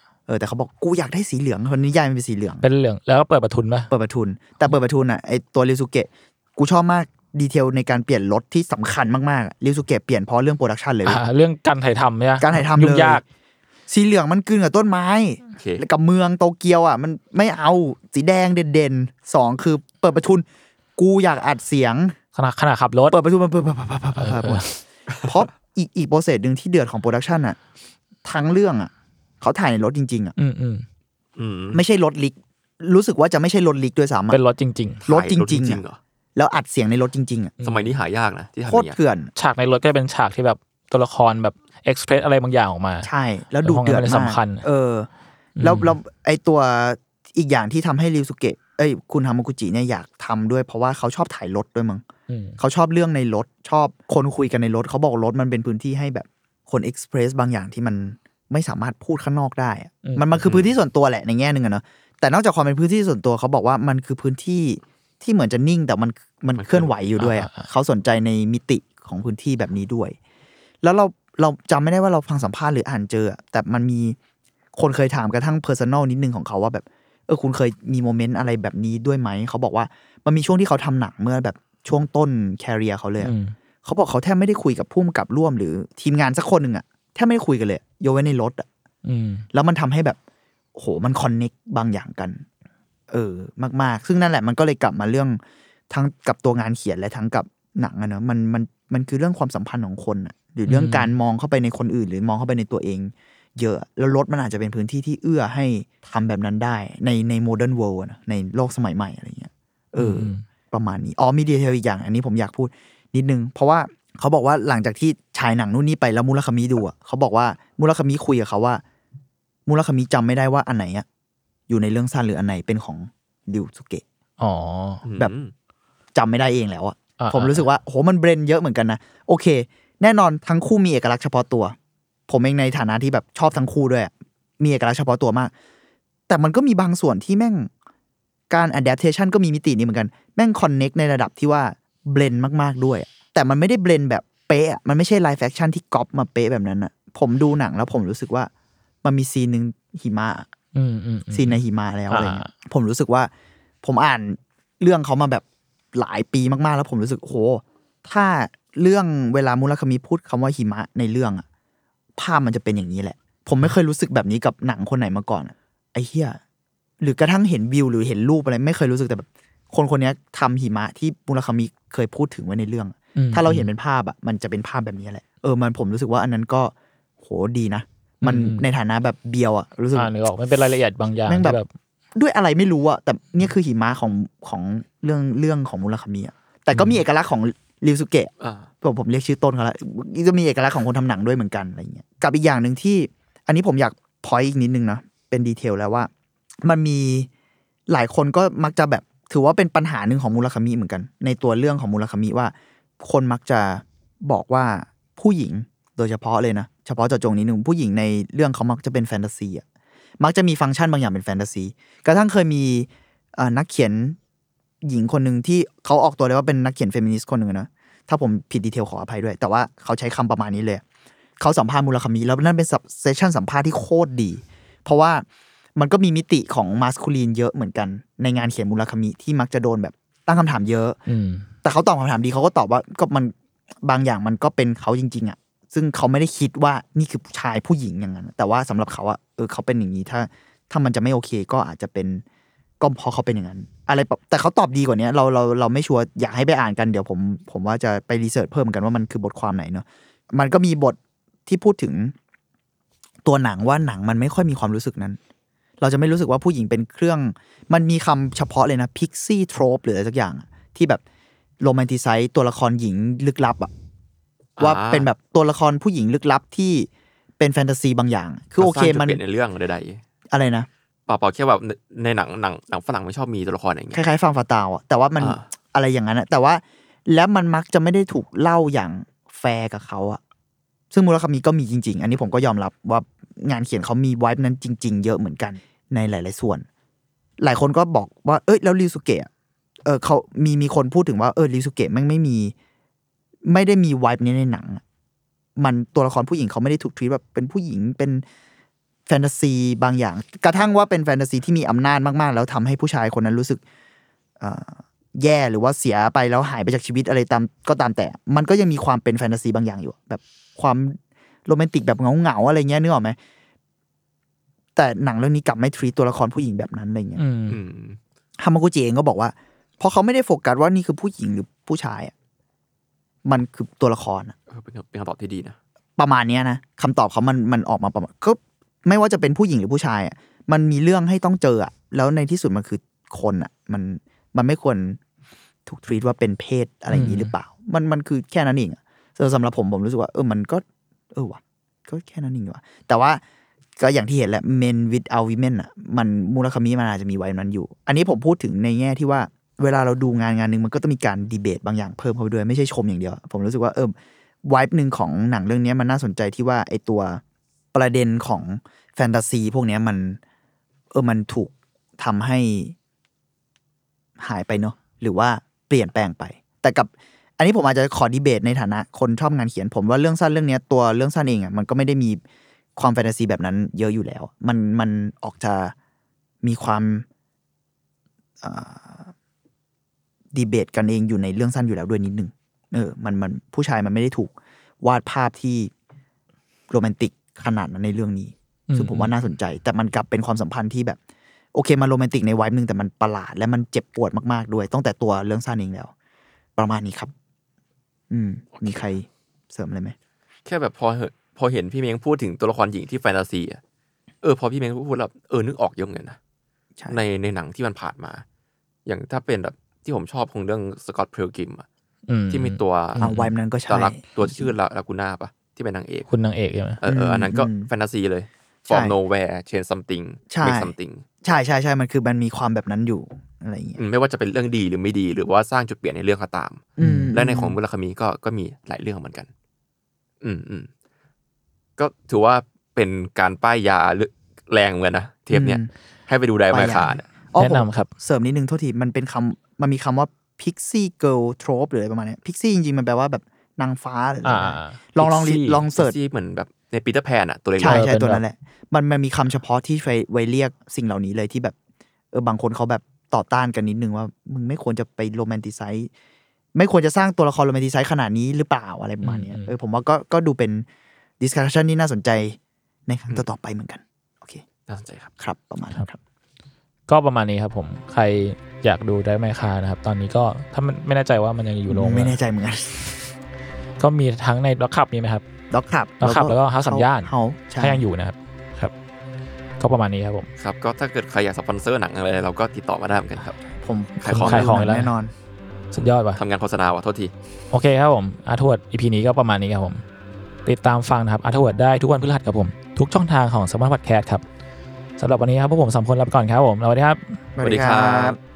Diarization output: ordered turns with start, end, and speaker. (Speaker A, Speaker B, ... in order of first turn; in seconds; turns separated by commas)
Speaker A: 0.3-2.6, Speaker B: 2.6-3.9, Speaker A: 3.9-11.2, Speaker B: 11.1-13.2, Speaker A: 12.4-13.2, Speaker A: 13.9-20.4, Speaker C: 15.6-15.8, Speaker A: 21.0-22.2, Speaker B: 22.4-23.2, Speaker A: 23.1-24.7, Speaker B: 24.2-24.8, Speaker A: 25.2-27.6, Speaker A: 28.2-30.4, Speaker B: 30.4-30.9, Speaker C: 31.4-31.8, Speaker A: 31.7-34.4, Speaker B: 34.3-35.0, Speaker C: 35.0-36.0, Speaker A: 35.1-35.8, Speaker A: 36.4-37.5, Speaker B: 37.6-37.9, Speaker C: 37.6-39.0, Speaker A: 38.7-39.3, Speaker B: 39.4-43.1, Speaker A: 43.0-45.1, Speaker B: 43.6-44.6, Speaker B: 45.6-46.0, Speaker A: 45.6-52.0, Speaker B: 52.3-52.6, Speaker A: 52.6-70.2, Speaker B: 60.0-60.4, Speaker C: 66.6-66.9, Speaker B: 67.2-67.7, Speaker A: 70.8-74.2, Speaker A: 74.8-83.3, Speaker B: 83.2-83.5, Speaker A: 83.8-88.7, Speaker B: 89.0-89.5, Speaker A: 89.5-90.2, Speaker A: 90.8-92.5, Speaker A: 93.1-118.8, Speaker B: 100.7-101.1, Speaker B: 110.0-110.4, Speaker A: 119.7-121.0, Speaker A: 121.7-124.0, Speaker B: 124.4-125.0, Speaker C: 125.0-125.5, Speaker A: 126.2-131.8, Speaker B: 127.2-127.6, Speaker A: 132.3-135.5, Speaker A: 136.3-137.7, Speaker A: 138.5-148.5, Speaker A: 149.0-150.5, Speaker B: 150.8-151.6, Speaker A: 151.3-153.3, Speaker B: 152.1-152.5, Speaker A: 153.8-161.4, Speaker A: 162.2-166.4, Speaker A: 167.0-180.1, Speaker B: 173.2-173.7, Speaker B: 178.2-178.7, Speaker B: 179.9-181.7, Speaker A: 181.3-181.6, Speaker A: 182.2-196.1, Speaker C: 188.4-188.7, Speaker A: 196.6-197.3, Speaker A: 197.9-209.6, Speaker A: 210.2-214.2, Speaker A: 214.8-220.8, Speaker A: 221.4-225.2, Speaker A: 225.8-231.0, Speaker B: 231.1-231.5, Speaker A: 231.6-242.2, Speaker A: 242.8-252.2, Speaker A: 253.2-255.2, Speaker A: 255.8-261.0, Speaker A: 261.6-263.7, Speaker C: 264.6-265.1, Speaker A: 264.6-269.2, Speaker C: 268.6-270.0, Speaker A: 270.3-270.7, Speaker C: 271.1-274.1, Speaker A: 273.9-280.2, Speaker C: 275.2-275.5, Speaker A: 280.9-286.7, Speaker A: 287.4-289.3, Speaker A: 289.9-292.6, Speaker A: 293.5-294.8, Speaker A: 295.6-298.2, Speaker A: 299.1-303.6, Speaker A: 304.4-313.2, Speaker A: 314.8-317.2, Speaker B: 317.2-317.6, Speaker C: 317.5-318.0, Speaker A: 318.4-322.1, Speaker A: 323.2-324.4, Speaker C: 324.5-325.6, Speaker A: 326.0-335.0, Speaker A: 335.7-343.2, Speaker B: 336.9-337.3, Speaker A: 343.8-353.9, Speaker A: 354.5-357.2, Speaker A: 357.7-360.2, Speaker A: 360.9-362.8, Speaker A: 364.2-372.2, Speaker A: 372.8-375.8, Speaker A: 376.4-377.1, Speaker A: 378.4-379.1, Speaker A: 380.3-385.7, Speaker A: 386.7-391.0, Speaker B: 388.7-389.1, Speaker A: 391.5-395.9, Speaker A: 396.6-397.1, Speaker A: 398.1-400.0, Speaker C: 398.6-398.9, Speaker C: 400.5-403.6, Speaker C: 404.2-406.2, Speaker C: 406.9-408.2, Speaker C: 408.9-411.6, Speaker B: 412.1-413.3, Speaker C: 412.3-413.1, Speaker A: 413.0-414.5, Speaker C: 413.7-416.1, Speaker B: 416.1-416.8, Speaker C: 416.8-421.0, Speaker A: 416.9-417.7, Speaker A: 418.7-418.9, Speaker A: 420.3-423.8, Speaker C: 423.8-429.3, Speaker A: 426.8-427.6, Speaker B: 426.8-427.1, Speaker C: 430.2-430.7, Speaker C: 431.8-437.1, Speaker A: 435.3-435.7, Speaker A: 436.5-446.0, Speaker B: 437.4-437.9, Speaker B: 444.2-445.6, Speaker C: 445.8-447.9, Speaker A: 447.6-451.6, Speaker B: 447.6-448.2, Speaker A: 452.1-455.9, Speaker A: 456.6-460.7, Speaker B: 459.0-459.6, Speaker A: 461.2-464.4, Speaker C: 464.7-465.1, Speaker A: 465.2-466.0, Speaker B: 466.9-472.2, Speaker A: 471.7-473.0, Speaker B: 473.8-475.2, Speaker A: 475.5-477.9, Speaker B: 476.0-478.7, Speaker B: 479.6-480.3, Speaker C: 480.4-483.4, Speaker A: 483.6-485.1, Speaker C: 484.0-484.6, Speaker B: 484.2-484.9, Speaker B: 485.7-486.2, Speaker C: 486.2-487.1, Speaker B: 487.5-489.8, Speaker B: 490.4-494.2, Speaker B: 495.0-497.2, Speaker A: 497.4-498.2, Speaker C: 497.4-498.2